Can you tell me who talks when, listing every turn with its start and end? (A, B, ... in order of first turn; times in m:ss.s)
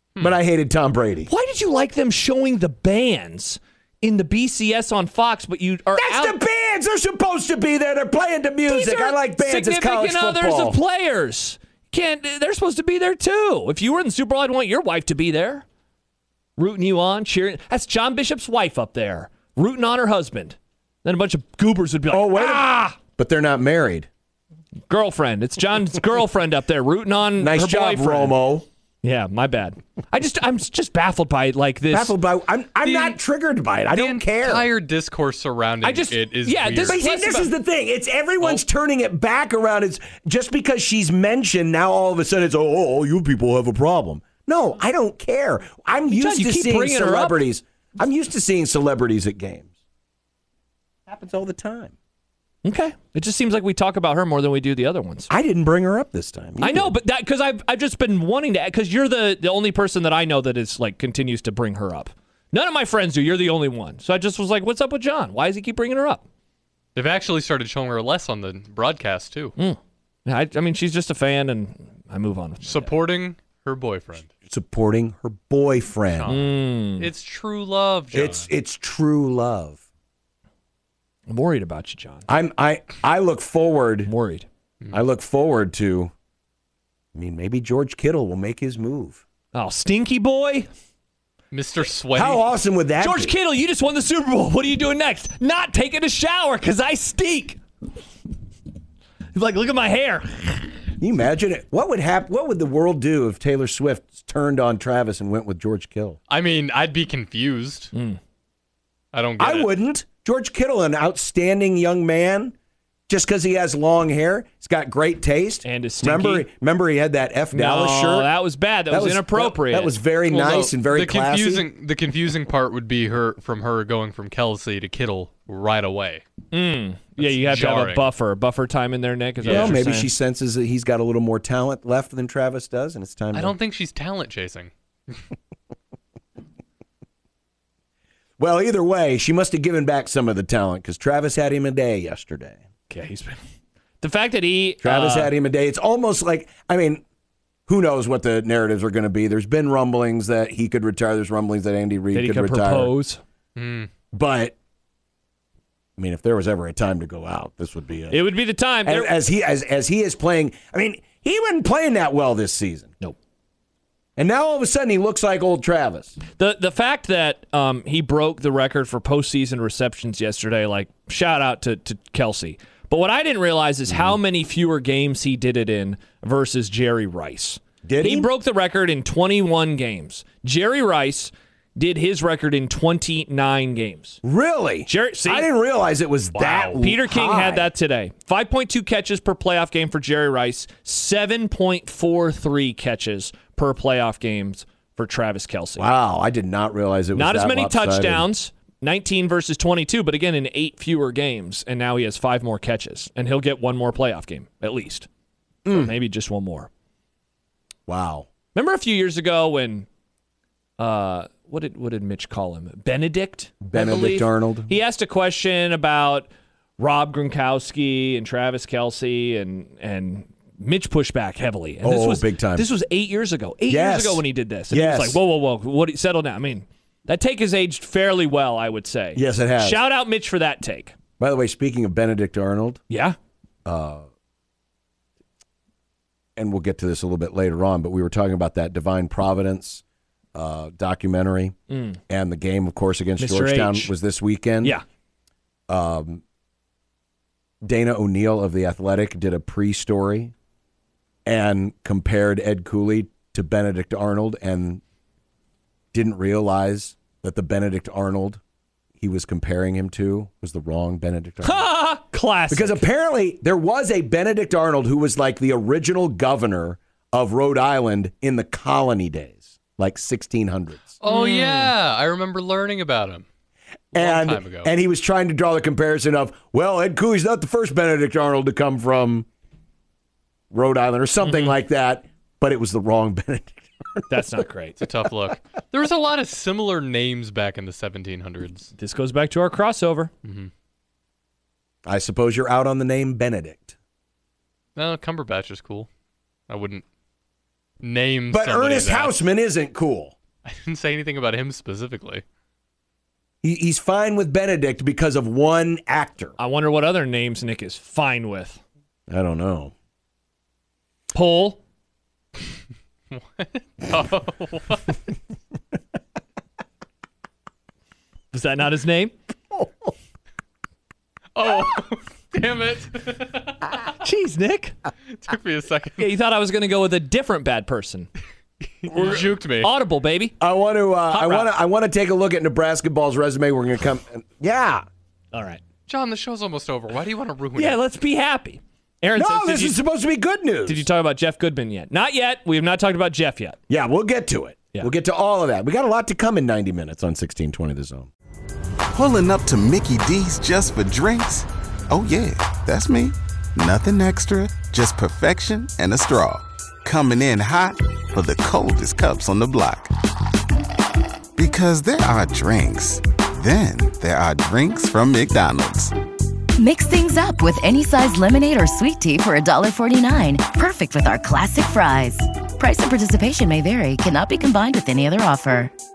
0:00.2-0:01.3 A
0:01.2-0:06.4 B
0:05.9-0:10.8 A
0:08.6-0:15.6 B
0:16.6-0:23.0 B
0:22.1-0:24.1 A
0:24.9-0:28.4 B
0:27.4-0:28.6 A
0:29.0-0:32.2 B
0:31.9-0:34.7 A
0:32.8-0:33.2 C
0:33.9-0:37.0 C
0:35.8-0:37.5 B
0:36.8-0:49.7 A
0:46.1-0:47.4 B
0:51.1-0:51.9 A
0:52.6-0:55.3 B
0:55.3-0:56.9 A
0:56.6-1:06.2 B
1:06.9-1:09.5 C
1:09.6-1:12.9 B
1:12.6-1:14.3 C
1:14.5-1:16.4 A
1:16.1-1:18.5 C
1:16.3-1:17.1 B
1:18.1-1:19.8 A
1:21.3-1:22.3 B
1:22.3-1:24.1 A
1:24.0-1:24.5 B
1:24.9-1:26.1 A
1:27.1-1:29.2 A
1:29.5-1:30.7 B
1:31.5-1:32.4 C
1:32.1-1:33.3 A
1:33.0-1:37.6 B
1:39.3-1:40.8 B
1:41.0-1:46.2 A
1:46.3-1:47.9 C
1:47.9-1:48.2 B
1:49.1-1:49.7 C
1:49.4-1:52.5 A
1:53.1-1:58.4 A
1:55.6-1:56.5 B
1:57.5-1:59.9 B
1:58.9-2:01.6 A
2:00.3-2:06.2 C
2:06.5-2:10.1 B
2:07.2-2:08.1 C
2:09.4-2:09.8 C
2:09.5-2:13.6 A
2:13.3-2:15.2 C
2:18.4-2:22.6 A
2:22.9-2:23.4 B
2:24.0-2:25.3 B
2:24.8-2:27.0 A
2:27.7-2:32.9 A
2:32.1-2:33.2 B
2:33.6-2:33.9 C
2:34.1-2:34.6 A
2:36.0-2:38.3 A
2:38.1-2:39.1 B
2:38.8-2:42.9 A
2:44.2-2:46.2 A
2:46.4-3:04.2 B
2:57.8-2:58.3 A
3:04.2-3:07.7 A
3:04.8-3:05.5 B
3:06.3-3:06.8 C
3:06.7-3:15.9 B
3:15.8-3:18.3 A
3:17.1-3:25.1 B
3:25.6-3:25.9 A
3:25.7-3:26.7 B
3:27.9-3:28.3 A
3:28.5-3:29.9 B
3:30.8-3:50.9 B
3:33.6-3:34.7 A
3:41.8-3:42.7 A
3:43.7-3:45.2 A
3:49.1-3:49.8 A
3:51.2-3:52.8 A
3:52.9-3:53.2 B
3:53.7-3:54.1 A
3:56.4-3:59.8 A
4:00.3-4:01.6 A
4:01.7-4:02.0 B
4:02.1-4:04.8 A
4:03.2-4:03.9 B
4:05.7-4:06.2 A
4:07.6-4:10.3 A
4:11.2-4:14.8 A
4:15.9-4:18.4 A
4:19.0-4:21.7 A
4:21.4-4:22.8 B
4:22.5-4:31.0 A
4:31.0-4:33.2 C
4:31.0-4:31.7 B
4:33.9-4:34.7 C
4:33.9-4:39.3 A
4:40.5-4:44.3 A
4:41.2-4:41.6 C
4:44.1-4:44.8 B
4:44.8-4:48.7 C
4:48.8-4:50.1 B
4:50.2-4:50.5 C
4:51.8-4:53.7 A
4:54.8-4:55.9 C
4:56.5-4:56.8 C
4:57.8-4:59.2 C
4:58.3-5:00.2 A
5:00.4-5:02.2 C
5:03.4-5:06.4 A
5:06.4-5:08.6 B
5:09.1-5:09.7 A
5:11.1-5:11.6 B
5:13.1-5:15.0 C
5:18.3-5:19.1 B
5:21.3-5:23.8 C
5:24.0-5:24.8 B
5:25.1-5:26.1 C
5:26.0-5:28.1 B
5:28.8-5:29.7 C
5:28.9-5:30.3 B
5:30.4-5:34.8 A
5:31.1-5:31.5 B
5:35.3-5:35.6 B
5:35.9-5:37.8 C
5:37.6-5:39.8 B
5:39.1-5:40.9 A
5:40.7-5:43.6 B
5:43.7-5:48.1 A
5:48.9-5:59.9 D
6:01.4-6:05.9 D
6:06.6-6:15.7 E